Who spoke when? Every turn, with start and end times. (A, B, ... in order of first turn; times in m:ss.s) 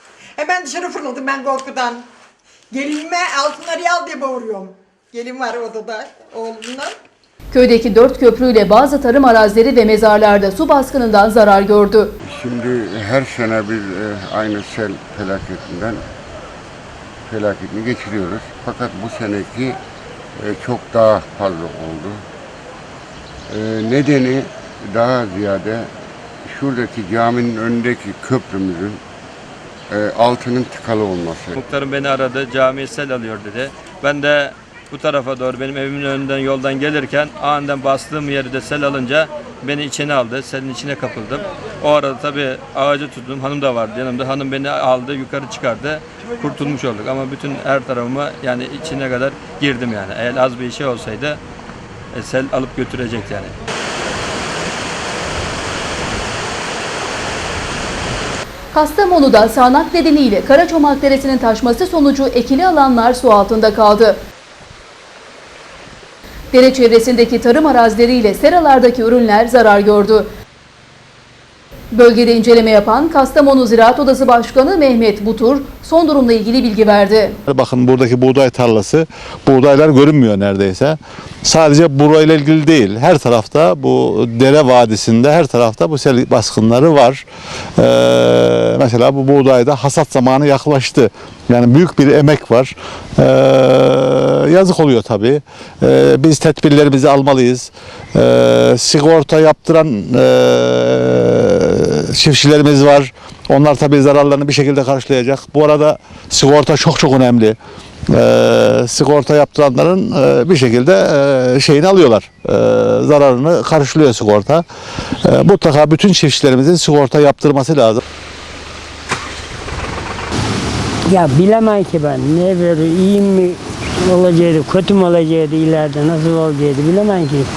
0:00.4-0:02.0 A
0:02.7-0:06.9 A
0:07.5-0:12.1 B
0:12.2-0:16.0 C
0:17.3-0:19.8 C
0:20.4-0:22.2 C
0:23.5-0:25.9 C
0:26.4-0:29.0 C
0:29.9-0:31.5 C
0:31.5-0:51.4 D
0:52.1-0:53.5 D
0:58.7-1:04.2 B
1:06.5-1:10.3 B
1:11.9-1:17.4 B
1:17.5-1:27.2 E
1:27.8-1:47.6 E
1:48.1-1:54.6 E
1:55.2-1:58.0 E
2:01.1-2:03.5 F
2:04.2-2:07.4 F